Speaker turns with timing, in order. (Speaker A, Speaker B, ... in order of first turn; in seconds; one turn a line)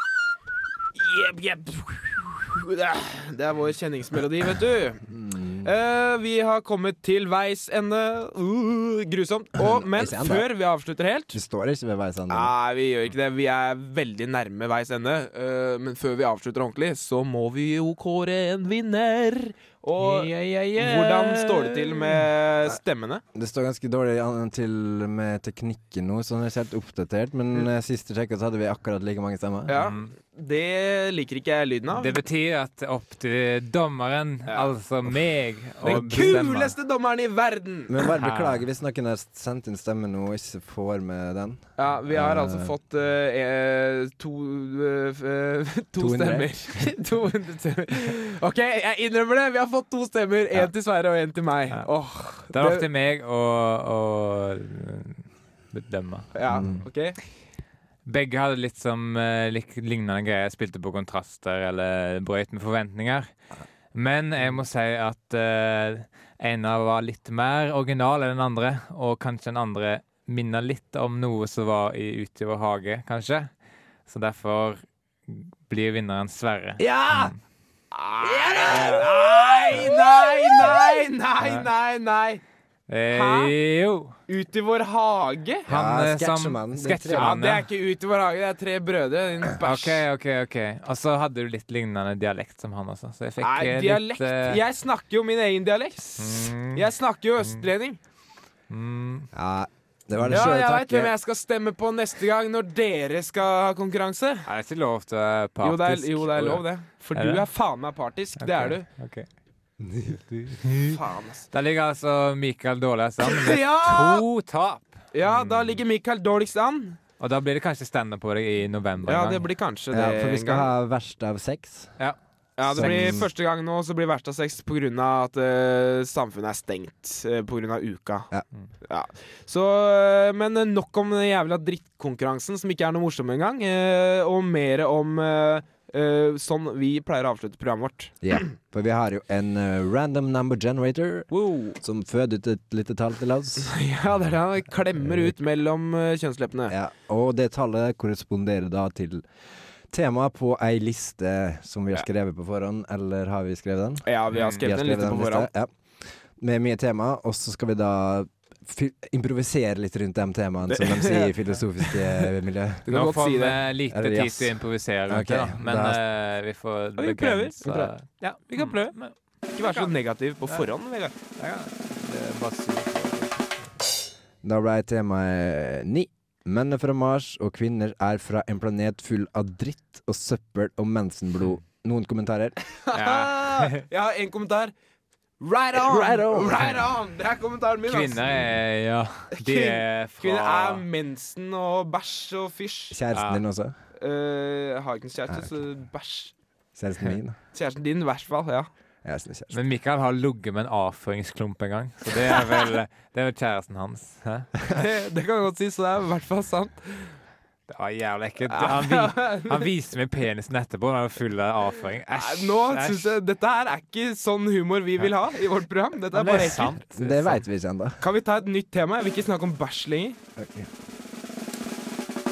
Speaker A: 0.9-5.0
Speaker B: 5.1-5.7
Speaker A: 5.6-11.3
Speaker B: 9.6-10.5
Speaker B: 11.3-12.5
Speaker A: 12.3-23.2
Speaker C: 20.0-22.2
Speaker B: 23.3-29.8
Speaker A: 29.7-32.2
Speaker C: 29.8-30.1
Speaker C: 31.9-36.7
Speaker A: 35.8-37.9
Speaker B: 37.9-42.7
Speaker C: 38.2-38.6
Speaker A: 41.8-52.8
Speaker B: 46.0-46.5
Speaker C: 52.5-56.3
Speaker A: 56.3-57.2
Speaker B: 56.5-56.8
Speaker C: 58.0-63.3
Speaker C: 63.9-73.5
Speaker C: 74.1-77.4
Speaker A: 76.8-77.3
Speaker A: 77.9-82.4
Speaker C: 78.7-79.0
Speaker C: 81.4-81.7
Speaker C: 82.9-84.1
Speaker A: 83.1-83.5
Speaker A: 84.3-85.7
Speaker B: 85.7-87.3
Speaker C: 85.7-87.6
Speaker A: 87.1-90.0
Speaker C: 89.6-94.6
Speaker A: 93.4-98.0
Speaker C: 96.2-96.8
Speaker C: 98.7-99.3
Speaker B: 99.3-101.1
Speaker A: 100.3-104.4
Speaker C: 104.5-107.4
Speaker A: 105.6-108.8
Speaker C: 108.4-109.3
Speaker B: 109.8-110.5
Speaker C: 110.6-111.0
Speaker A: 110.9-111.5
Speaker C: 111.5-115.8
Speaker A: 113.2-114.2
Speaker A: 115.1-117.0
Speaker C: 117.2-119.4
Speaker A: 119.0-120.7
Speaker B: 119.9-121.9
Speaker A: 122.6-128.3
Speaker B: 122.7-123.3
Speaker C: 122.7-123.2
Speaker A: 128.8-138.4
Speaker B: 138.2-141.3
Speaker A: 141.3-141.8
Speaker B: 141.8-143.8
Speaker A: 143.6-146.7
Speaker B: 145.1-145.3
Speaker B: 146.7-149.2
Speaker B: 149.9-154.1
Speaker A: 154.1-155.5
Speaker C: 154.3-154.6
Speaker B: 154.6-155.7
Speaker B: 156.4-162.9
Speaker A: 160.7-162.3
Speaker A: 162.8-163.6
Speaker C: 162.9-169.9
Speaker B: 163.9-164.6
Speaker B: 165.1-166.0
Speaker A: 167.0-167.9
Speaker A: 168.5-169.0
Speaker A: 169.5-171.1
Speaker C: 171.3-173.5
Speaker B: 174.4-182.6
Speaker A: 182.7-184.7
Speaker C: 182.9-183.8
Speaker A: 185.4-188.3
Speaker B: 185.7-186.7
Speaker C: 187.9-190.8
Speaker A: 189.3-193.0
Speaker B: 192.9-193.7
Speaker C: 193.1-193.4
Speaker A: 194.0-196.3
Speaker B: 196.7-197.4
Speaker A: 197.5-198.7
Speaker B: 199.0-199.6
Speaker C: 199.5-204.5
Speaker A: 204.7-207.1
Speaker C: 207.7-213.1
Speaker A: 208.5-209.7
Speaker A: 212.1-216.7
Speaker C: 216.1-217.4
Speaker B: 216.9-218.0
Speaker A: 218.0-220.2
Speaker B: 220.4-220.7